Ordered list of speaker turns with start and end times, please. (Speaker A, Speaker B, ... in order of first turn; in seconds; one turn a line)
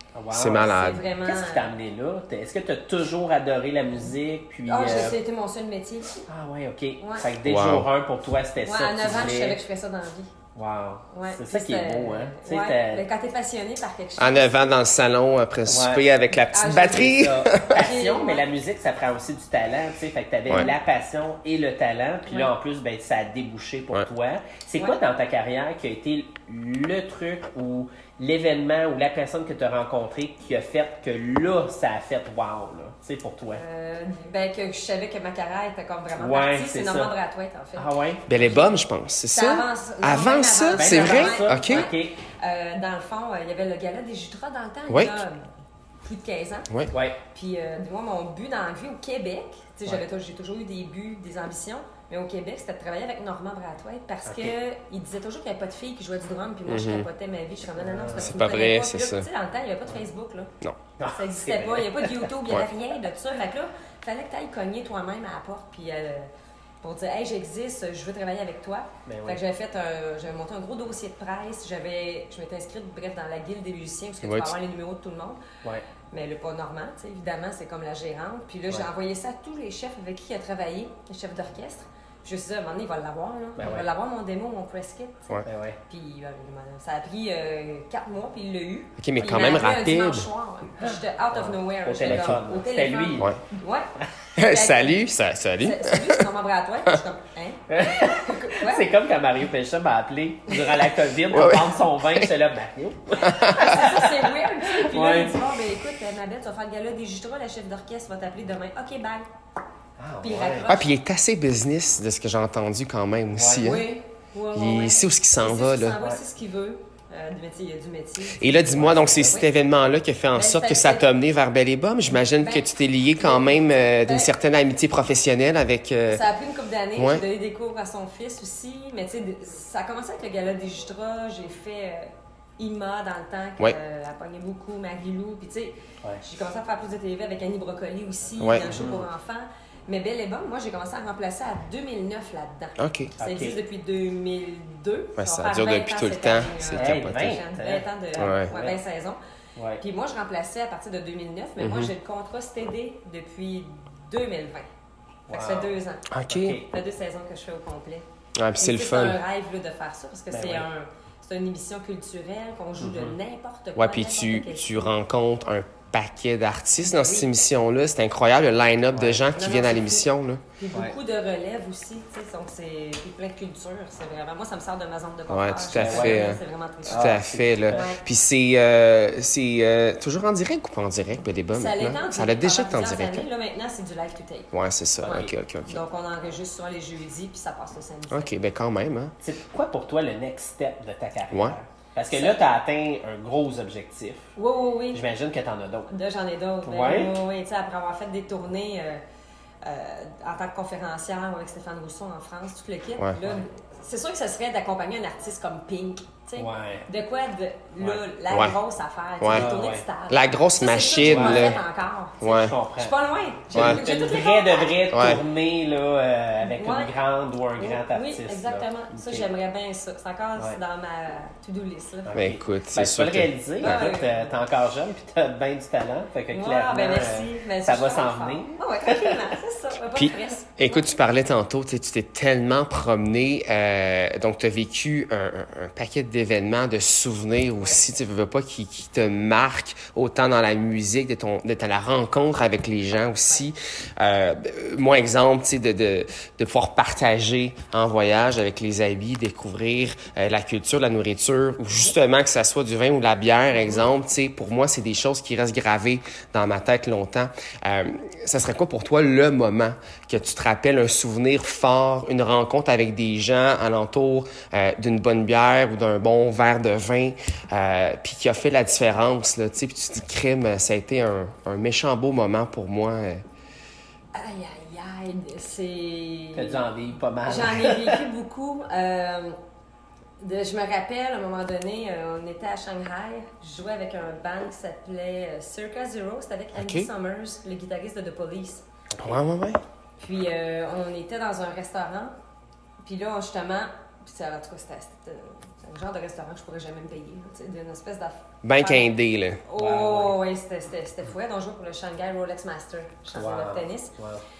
Speaker A: 0.1-5.2
Speaker B: 0.3-1.0
Speaker C: 0.5-1.7
Speaker C: 4.7-6.2
Speaker A: 6.2-9.6
Speaker C: 7.0-7.3
Speaker B: 7.4-7.9
Speaker C: 8.6-10.3
Speaker A: 10.5-13.0
Speaker C: 11.1-14.8
Speaker B: 14.2-17.8
Speaker A: 15.7-16.1
Speaker C: 16.5-18.5
Speaker A: 16.9-33.6
Speaker C: 33.5-45.4
Speaker A: 36.1-37.1
Speaker A: 37.8-38.3
Speaker B: 38.3-41.9
Speaker A: 40.7-42.2
Speaker B: 44.9-45.2
Speaker C: 46.0-46.7
Speaker A: 46.9-47.2
Speaker C: 47.3-60.5
Speaker A: 54.2-54.5
Speaker B: 56.7-57.1
Speaker A: 57.8-58.3
Speaker B: 58.1-59.3
Speaker A: 61.0-62.3
Speaker C: 61.1-66.3
Speaker C: 66.8-75.4
Speaker A: 69.0-69.4
Speaker B: 74.2-74.5
Speaker C: 76.1-95.0
Speaker A: 83.6-83.9
Speaker A: 85.5-85.8
Speaker B: 89.0-90.3
Speaker A: 90.8-93.3
Speaker B: 92.0-92.4
Speaker B: 94.4-96.2
Speaker C: 95.6-98.9
Speaker A: 97.7-105.4
Speaker C: 100.5-100.9
Speaker B: 101.3-102.3
Speaker B: 103.3-103.8
Speaker C: 103.4-109.3
Speaker A: 110.0-110.8
Speaker C: 110.2-110.9
Speaker B: 110.7-113.9
Speaker A: 113.3-113.7
Speaker C: 113.6-119.5
Speaker B: 114.5-116.0
Speaker B: 118.4-126.2
Speaker A: 118.7-119.4
Speaker C: 120.3-121.0
Speaker C: 122.2-124.3
Speaker C: 126.1-149.2
Speaker B: 127.0-127.2
Speaker B: 138.4-138.7
Speaker A: 138.6-139.1
Speaker B: 142.8-143.1
Speaker A: 143.2-143.6
Speaker B: 145.2-147.4
Speaker A: 146.7-148.8
Speaker B: 148.2-148.5
Speaker A: 149.6-149.8
Speaker C: 149.8-154.7
Speaker B: 151.6-151.9
Speaker A: 155.3-156.7
Speaker C: 155.3-156.1
Speaker B: 156.1-156.6
Speaker C: 156.7-158.1
Speaker B: 158.4-159.2
Speaker C: 158.6-164.9
Speaker A: 160.3-160.7
Speaker A: 162.8-163.2
Speaker B: 163.8-170.4
Speaker C: 166.8-167.3
Speaker A: 168.9-169.2
Speaker C: 169.3-178.0
Speaker B: 175.3-183.2
Speaker A: 175.8-176.3
Speaker A: 176.9-177.9
Speaker C: 181.5-184.5
Speaker B: 184.5-185.8
Speaker A: 185.0-185.3
Speaker C: 185.1-188.3
Speaker B: 188.1-189.1
Speaker A: 189.2-194.3
Speaker B: 191.3-191.6
Speaker C: 192.1-192.5
Speaker C: 194.4-195.0
Speaker A: 194.9-195.9
Speaker C: 195.9-199.0
Speaker A: 196.6-197.2
Speaker C: 199.6-214.8
Speaker A: 206.4-206.9
Speaker B: 208.3-208.6
Speaker B: 209.2-209.5
Speaker A: 209.3-209.8
Speaker B: 210.1-211.6
Speaker A: 211.0-211.6
Speaker B: 212.2-212.5
Speaker A: 212.2-212.9
Speaker A: 213.5-219.2
Speaker B: 213.5-213.8
Speaker B: 214.9-215.2
Speaker C: 216.4-216.9
Speaker C: 217.6-222.2
Speaker A: 222.0-229.3
Speaker B: 222.1-223.9
Speaker C: 223.6-224.3
Speaker C: 226.3-230.9
Speaker B: 229.9-273.2
Speaker C: 274.1-276.6
Speaker A: 276.3-278.0
Speaker C: 277.2-279.4
Speaker C: 280.2-288.6
Speaker B: 286.5-286.9
Speaker A: 288.9-289.2
Speaker B: 289.0-289.6
Speaker C: 290.0-292.1
Speaker C: 292.8-298.9
Speaker B: 298.4-299.4
Speaker C: 299.4-303.9
Speaker A: 299.6-300.2
Speaker A: 303.1-304.2